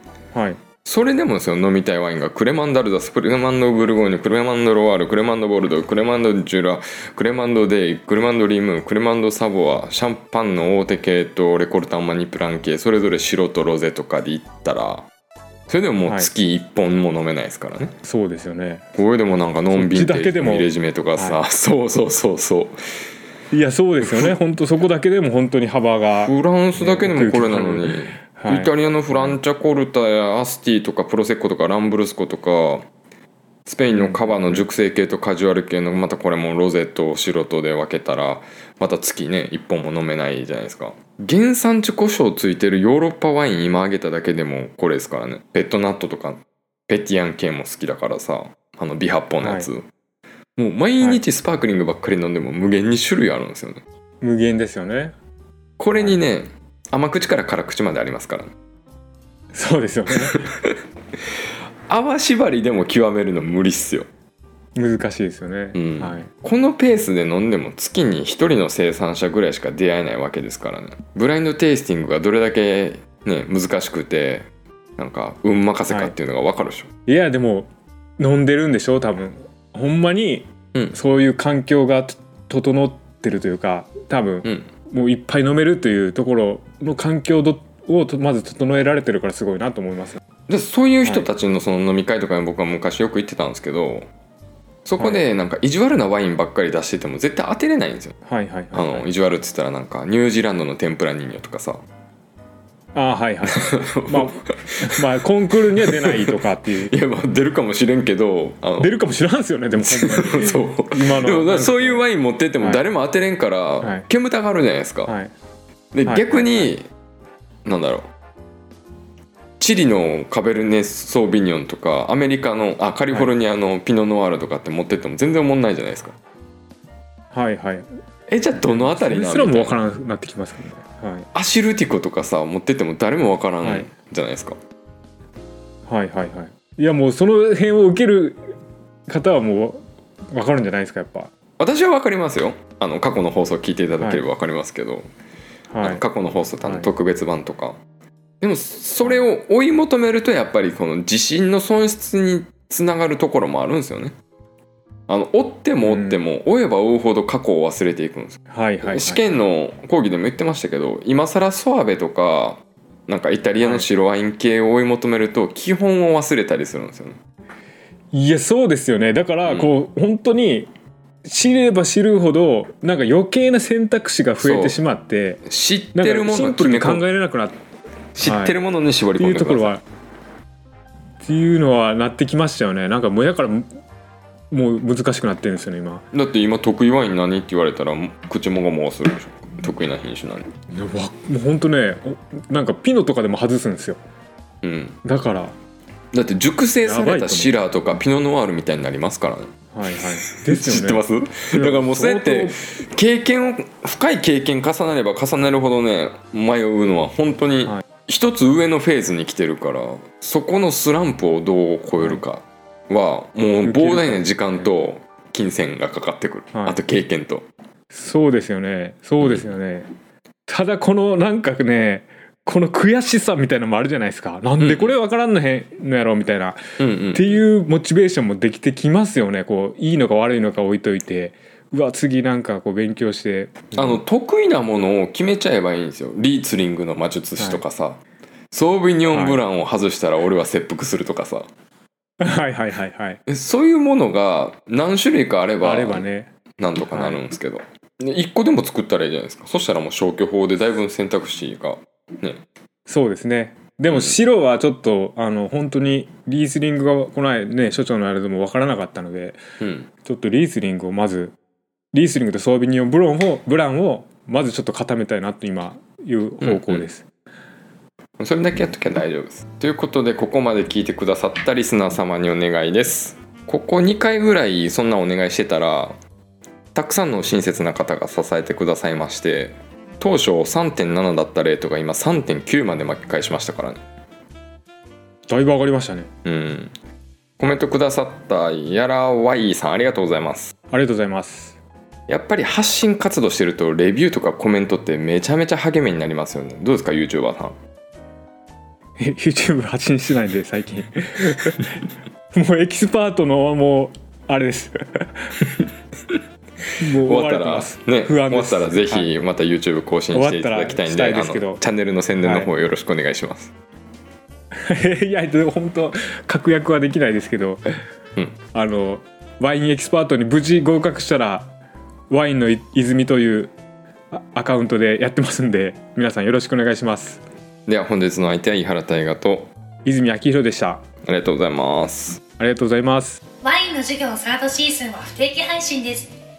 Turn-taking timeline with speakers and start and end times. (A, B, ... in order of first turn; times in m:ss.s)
0:00.3-0:00.6 A
0:00.8-0:15.1 B
0:15.7-0:18.0 B
0:16.0-0:16.3 A
0:18.0-0:18.9 A
0:19.0-0:22.8 B
0:19.7-0:21.4 A
0:23.5-0:29.4 A
0:24.0-0:24.4 B
0:26.2-0:32.9 B
0:33.7-0:49.9 B
0:33.9-0:34.7 A
0:49.4-0:49.7 A
0:50.6-0:53.8 B
0:54.2-0:55.2 A
0:55.8-0:58.5 B
0:59.5-1:00.3 A
1:00.4-1:00.7 B
1:01.9-1:04.1 B
1:04.8-1:06.3 A
1:05.8-1:16.9 B
1:15.9-1:16.2 A
1:17.1-1:30.2 A
1:24.4-1:24.7 B
1:30.5-1:34.1 B
1:34.8-1:38.2 B
1:35.0-1:35.2 A
1:38.3-1:39.1 A
1:38.7-1:41.8 B
1:42.9-1:47.0 A
1:43.5-1:49.0 B
1:48.8-1:52.0 A
1:49.8-1:55.1 B
1:53.8-1:54.1 A
1:55.1-1:55.3 A
1:55.9-1:56.9 B
1:56.0-1:56.7 A
1:57.6-1:58.1 B
1:59.6-2:06.2 B
2:07.3-2:07.9 A
2:08.3-2:09.8 B
2:08.7-2:11.3 A
2:11.3-2:14.6 B
2:13.6-2:13.9 A
2:15.9-2:18.6 A
2:19.1-2:21.3 A
2:21.6-2:25.1 B
2:24.0-2:24.2 A
2:25.7-2:26.0 A
2:25.8-2:27.8 B
2:26.6-2:26.9 A
2:28.4-2:34.1 B
2:35.1-2:47.2 B
2:35.8-2:36.2 A
2:38.5-2:39.2 A
2:43.6-2:43.9 A
2:48.1-2:50.7 A
2:49.5-2:49.7 B
2:51.2-2:55.4 A
2:54.4-2:54.8 B
2:55.4-2:57.0 B
2:55.9-2:57.6 A
2:58.2-2:59.8 B
2:58.2-2:58.6 A
2:59.2-2:59.8 A
3:01.2-3:03.7 A
3:04.5-3:06.1 A
3:06.1-3:10.5 B
3:10.7-3:14.0 A
3:14.6-3:15.0 B
3:15.0-3:15.5 A
3:16.1-3:19.5 B
3:16.8-3:17.6 A
3:19.7-3:21.0 A
3:20.3-3:37.5 B
3:21.5-3:22.6 A
3:33.6-3:34.7 A
3:36.5-3:36.8 A
3:37.9-3:39.9 A
3:39.2-3:39.5 B
3:40.5-3:46.6 A
3:44.6-3:44.9 B
3:46.8-3:47.4 B
3:47.1-3:54.0 A
3:53.8-3:58.0 B
3:58.5-4:01.5 B
3:59.1-3:59.4 A
4:02.2-4:03.2 A
4:03.3-4:06.0 B
4:05.6-4:06.3 A
4:06.6-4:12.4 B
4:06.9-4:07.2 A
4:12.9-4:19.4 A
4:13.9-4:14.2 B
4:19.6-4:19.9 B
4:20.0-4:21.4 A
4:21.9-4:27.1 A
4:26.4-4:26.9 B
4:28.2-4:36.0 B
4:36.8-4:43.8 B
4:45.3-4:46.1 A
4:46.2-4:46.7 B
4:47.4-4:50.5 B
4:50.7-4:51.6 A
4:52.1-4:57.6 B
4:59.0-5:01.7 A
5:02.3-5:05.3 A
5:06.8-5:09.1 A
5:07.0-5:13.5 B
5:10.1-5:11.6 A
5:12.2-5:12.5 A
5:14.6-5:17.8 A
5:18.5-5:21.5 A
5:22.1-5:23.5 A
5:24.1-5:27.2 A
5:27.7-5:29.5 B
5:29.8-5:30.8 A
5:31.0-5:32.2 B
5:32.4-5:33.2 A
5:33.4-5:36.1 C